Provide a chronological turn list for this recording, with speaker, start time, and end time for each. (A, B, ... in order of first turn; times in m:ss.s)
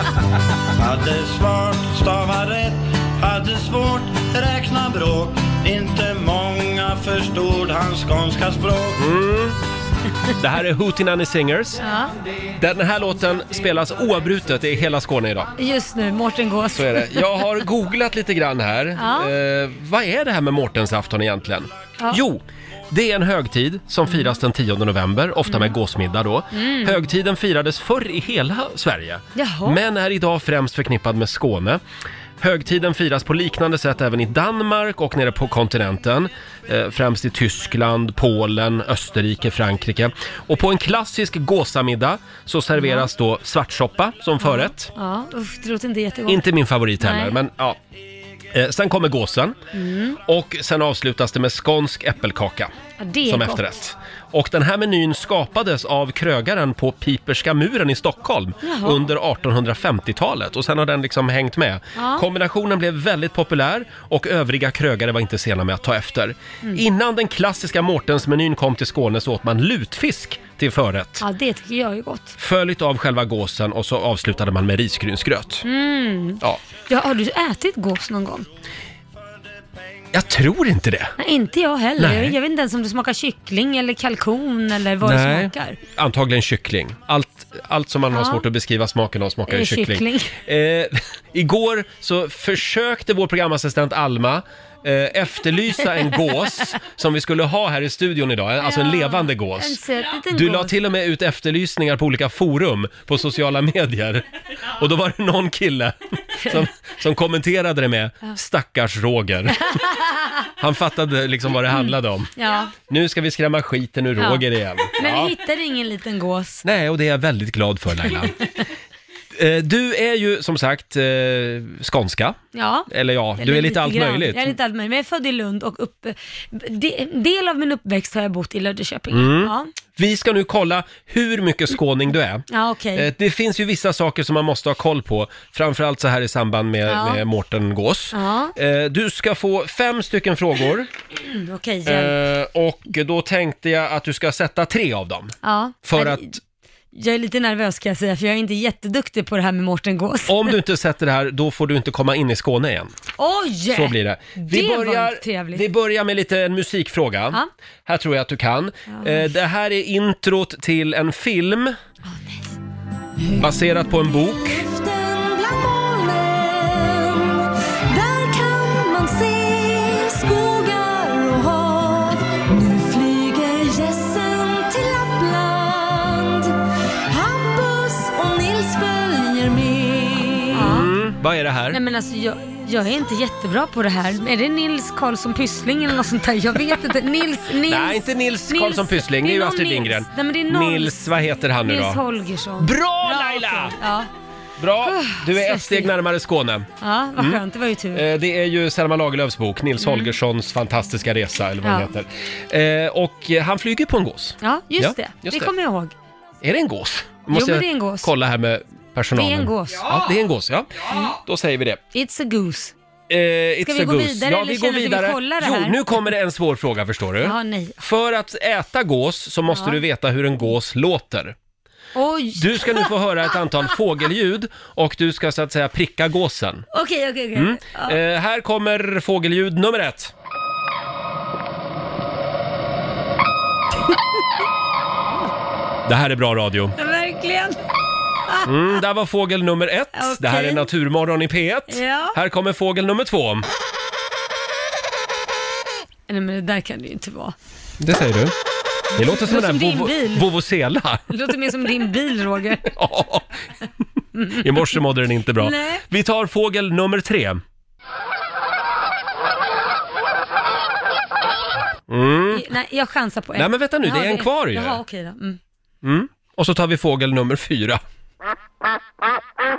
0:00.8-0:09.0 A
0:09.0-0:09.6 B
0:10.4-0:11.8 B
0:11.8-0:12.1 C
0:12.6-0:15.5 B
0:15.6-0:17.2 C
0:16.7-0:31.8 B
0:19.0-0:19.3 C
0:25.5-0:25.7 C
0:26.5-0:27.0 C
0:29.4-0:29.8 C
0:32.4-0:44.9 B
0:42.8-0:43.1 C
0:44.4-0:46.4 C
0:46.3-0:47.8 B
0:47.0-0:47.4 C
0:48.5-0:49.6 B
0:49.7-0:50.2 C
0:50.2-0:52.7 B
0:53.0-0:53.7 C
0:53.3-1:11.3 B
0:58.6-0:59.0 C
1:02.0-1:02.2 C
1:11.2-1:12.4 C
1:12.4-1:15.6 B
1:15.6-1:18.5 C
1:20.1-1:21.2 B
1:21.2-1:25.8 C
1:22.0-1:22.4 B
1:25.0-1:39.8 B
1:28.1-1:28.4 C
1:29.5-1:30.3 C
1:38.6-1:40.7 C
1:40.3-1:49.6 B
1:49.7-1:50.3 C
1:50.6-1:52.3 B
1:52.4-1:52.7 C
1:52.9-1:55.3 B
1:54.2-1:54.4 C
1:55.0-1:56.6 C
1:56.6-1:58.4 B
1:59.4-2:04.5 B
2:02.5-2:09.7 C
2:09.1-2:20.9 B
2:12.5-2:13.1 C
2:16.9-2:17.2 C
2:18.1-2:18.5 C
2:21.2-2:22.1 C
2:21.9-2:26.4 B
2:25.4-2:26.3 C
2:26.9-2:30.5 C
2:30.3-2:32.9 B
2:33.2-2:35.6 C
2:33.7-2:41.7 B
2:38.9-2:39.2 C
2:42.1-2:42.5 C
2:43.4-2:44.6 B
2:44.5-2:56.6 C
2:57.1-3:00.9 C
3:00.6-3:01.8 B
3:01.7-3:11.1 C
3:07.6-3:12.0 B
3:11.6-3:14.1 C
3:12.6-3:13.8 B
3:14.6-3:17.4 B
3:14.8-3:15.9 C
3:16.8-3:18.0 C
3:17.9-3:25.5 B
3:19.8-3:20.1 C
3:21.6-3:21.9 C
3:24.4-3:25.9 C
3:26.4-3:31.8 B
3:27.3-3:28.1 C
3:29.2-3:29.9 C
3:31.9-3:32.7 C
3:33.1-3:41.4 B
3:33.6-3:36.0 C
3:37.2-3:37.8 C
3:39.5-3:39.8 C
3:41.9-3:42.9 C
3:42.4-3:46.7 B
3:46.7-3:48.0 C
3:47.4-3:50.1 B
3:55.9-3:56.8 B
3:56.8-3:57.6 C
3:58.4-4:03.5 B
4:00.0-4:00.7 C
4:01.7-4:02.2 C
4:06.1-4:07.4 C
4:07.8-4:08.3 B
4:09.0-4:10.3 C
4:09.0-4:11.1 B
4:11.1-4:12.7 C
4:12.7-4:13.3 B
4:14.1-4:14.4 C
4:14.3-4:17.4 B
4:15.4-4:15.8 C
4:21.9-4:22.4 B
4:22.3-4:25.4 C
4:23.4-4:24.8 B
4:25.8-4:27.8 B